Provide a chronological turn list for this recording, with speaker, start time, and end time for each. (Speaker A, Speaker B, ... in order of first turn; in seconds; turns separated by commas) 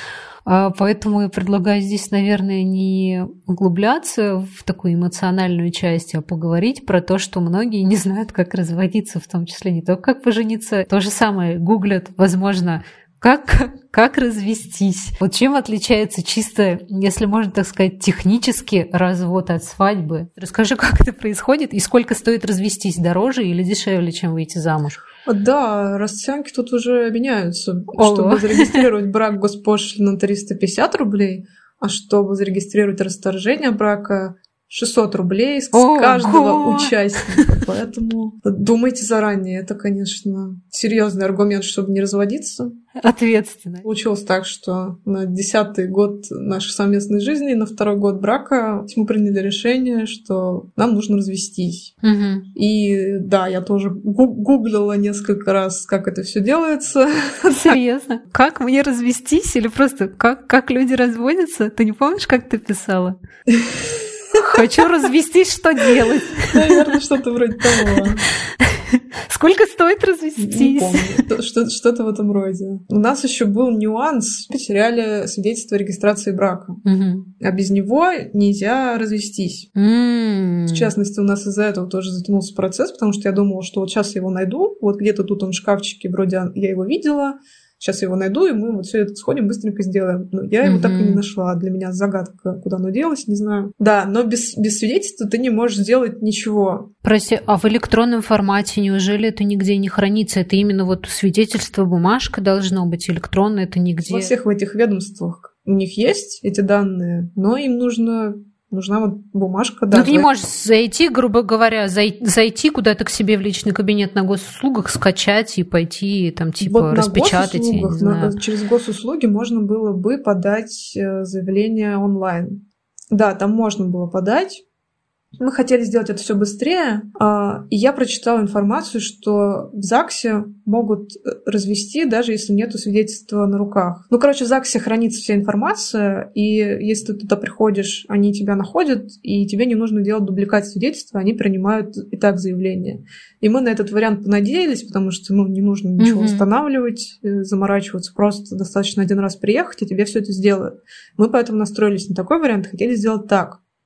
Speaker A: 0.4-25.0, Speaker B: 25.2-42.8, Speaker A: 28.0-28.8, Speaker A: 35.7-37.4, Speaker A: 43.0-43.8, Speaker B: 43.8-51.9, Speaker A: 52.0-52.5, Speaker B: 52.5-57.8, Speaker A: 57.5-63.2, Speaker B: 63.5-64.9, Speaker A: 64.3-67.0, Speaker B: 65.9-68.2, Speaker A: 67.7-71.2, Speaker B: 70.4-76.8, Speaker A: 76.8-77.3, Speaker B: 77.4-79.7, Speaker A: 79.7-80.9, Speaker B: 80.7-96.9, Speaker A: 90.6-91.2, Speaker A: 97.0-104.3, Speaker B: 104.0-110.3, Speaker A: 109.9-118.3, Speaker B: 116.6-122.6, Speaker B: 123.1-124.6, Speaker B: 125.4-153.6, Speaker A: 146.0-146.4